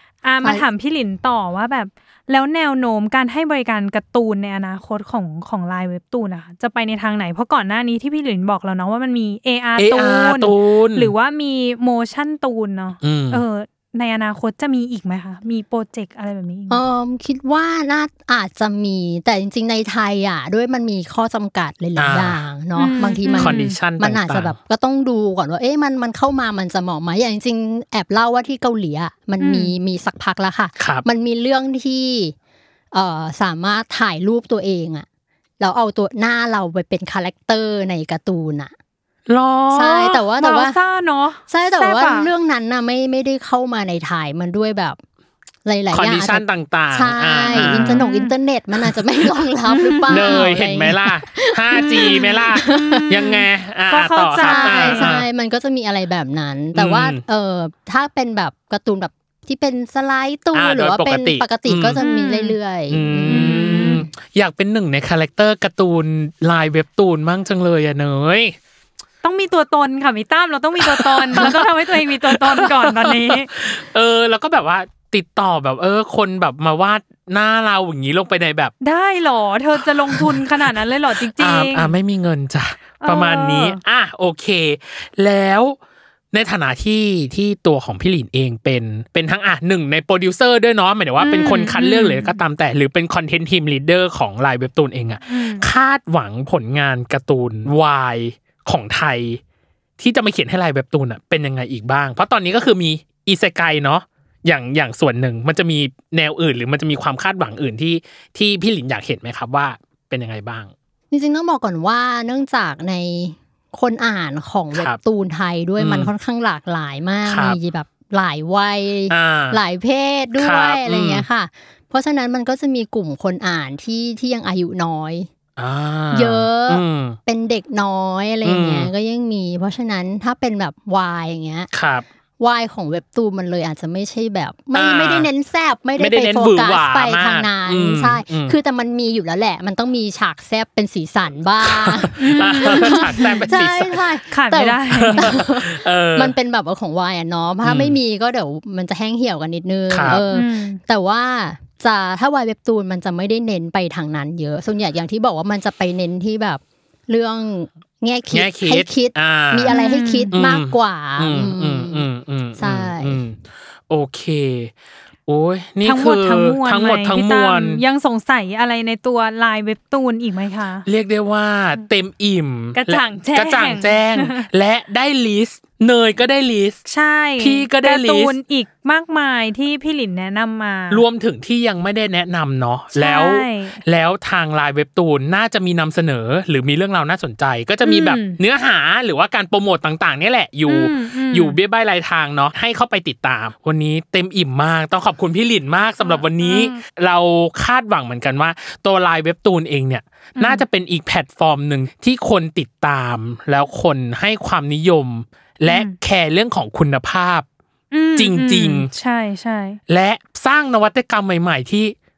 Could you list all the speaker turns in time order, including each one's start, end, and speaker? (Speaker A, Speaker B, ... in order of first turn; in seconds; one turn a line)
Speaker A: 0.2-16.8
Speaker B: 9.8-11.1
Speaker B: 13.0-13.4
Speaker C: 16.7-32.4
Speaker B: 22.0-22.4
Speaker A: 22.8-23.8
Speaker B: 23.3-24.5
Speaker A: 29.4-29.7
Speaker B: 30.8-31.0
Speaker C: 32.9-35.1
Speaker C: 35.6-38.7
Speaker B: 39.3-40.2
Speaker C: 39.7-40.8
Speaker A: 40.4-42.3
Speaker C: 41.5-45.0
Speaker C: 45.6-53.1
Speaker B: 45.9-48.0
Speaker A: 47.4-48.3
Speaker A: 49.7-50.4
Speaker B: 50.1-55.2
Speaker A: 51.8-55.2
Speaker C: 54.4-64.1
Speaker B: 56.7-57.2
Speaker B: 60.5-62.0
Speaker A: 62.0-62.5
Speaker B: 62.9-68.5
Speaker A: 63.3-64.0
Speaker A: 69.2-73.5
Speaker B: 70.8-78.7
Speaker A: 78.8-82.0
Speaker B: 79.8-85.8
Speaker A: 83.0-83.8
Speaker B: 86.3-99.4
Speaker A: 91.2-92.4
Speaker A: 95.3-95.7
Speaker B: 100.0-110.7
Speaker C: 111.1-125.3
Speaker B: 115.8-116.1
Speaker B: 117.2-117.6
Speaker B: 119.1-119.6
Speaker B: 120.4-121.2
Speaker B: 125.6-127.2
Speaker C: 126.1-131.7
Speaker B: 128.4-128.9
Speaker B: 131.7-132.0
Speaker C: 132.4-162.0
Speaker B: 134.7-135.3
Speaker B: 136.0-138.5
Speaker B: 141.6-144.0
Speaker A: 142.2-143.6
Speaker A: 144.3-145.4
Speaker B: 144.9-146.3
Speaker B: 147.6-148.0
Speaker B: 149.9-150.2
Speaker A: 150.3-150.8
Speaker B: 158.3-159.8
Speaker A: 159.7-160.3
Speaker B: 160.3-163.4
Speaker C: 162.6-163.2
Speaker B: 163.9-164.7
Speaker B: 165.3-167.8
Speaker A: 165.8-170.8
Speaker B: 170.9-176.8
Speaker A: 172.7-174.4
Speaker A: 176.8-181.0
Speaker B: 177.4-178.3
Speaker B: 180.9-207.5
Speaker A: 182.9-183.8
Speaker A: 187.8-188.4
Speaker A: 190.7-191.6
Speaker A: 196.0-196.8
Speaker A: 200.4-200.6
Speaker A: 205.7-205.9
Speaker A: 207.9-209.8
Speaker B: 208.2-208.9
Speaker B: 209.9-211.9